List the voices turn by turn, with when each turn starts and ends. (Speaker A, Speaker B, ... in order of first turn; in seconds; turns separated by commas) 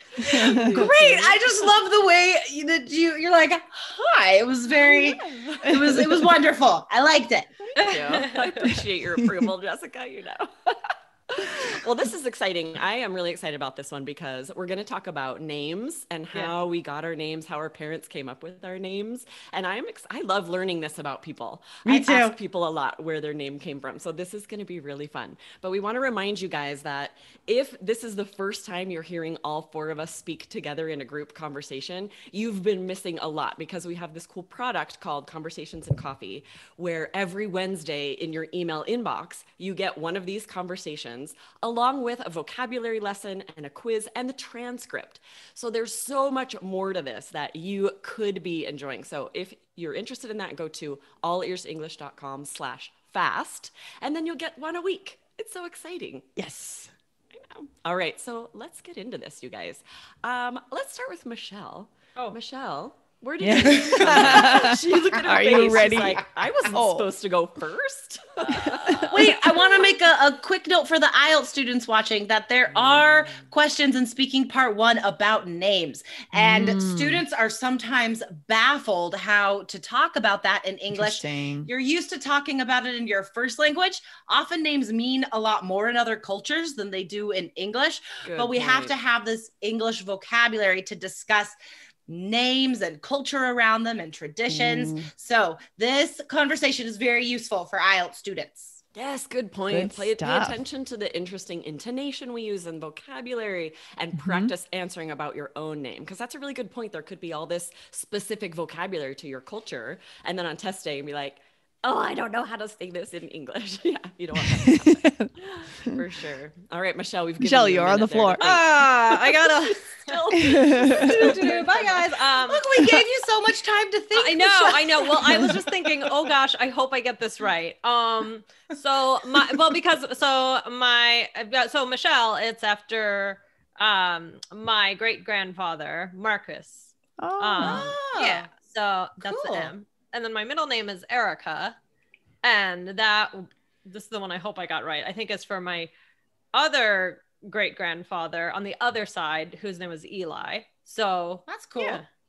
Speaker A: 0.2-0.9, Speaker B: 0.2-7.7, Speaker C: 0.3-1.7, Speaker C: 4.8-5.7, Speaker A: 5.7-6.3, Speaker D: 7.8-8.6, Speaker C: 7.8-10.5, Speaker A: 8.7-9.5, Speaker C: 11.3-56.3, Speaker B: 21.9-22.4, Speaker A: 56.4-56.9, Speaker C: 57.3-69.3, Speaker A: 63.4-67.1, Speaker B: 63.7-64.6, Speaker B: 65.3-66.1, Speaker A: 68.5-69.3, Speaker B: 69.1-91.5, Speaker C: 72.7-73.5, Speaker A: 76.3-77.2, Speaker A: 80.9-81.7, Speaker C: 88.2-89.0, Speaker B: 92.1-98.8, Speaker A: 94.5-95.1, Speaker C: 99.0-121.6, Speaker A: 99.7-100.6, Speaker A: 104.2-104.5, Speaker A: 114.5-116.0, Speaker A: 117.4-118.6, Speaker D: 118.4-120.2, Speaker A: 120.3-121.2, Speaker B: 120.8-126.3, Speaker D: 121.2-122.9, Speaker D: 124.1-141.8, Speaker A: 137.2-137.9, Speaker B: 137.6-138.5, Speaker B: 139.2-139.7, Speaker D: 142.4-145.9, Speaker D: 146.5-152.0, Speaker B: 151.5-152.0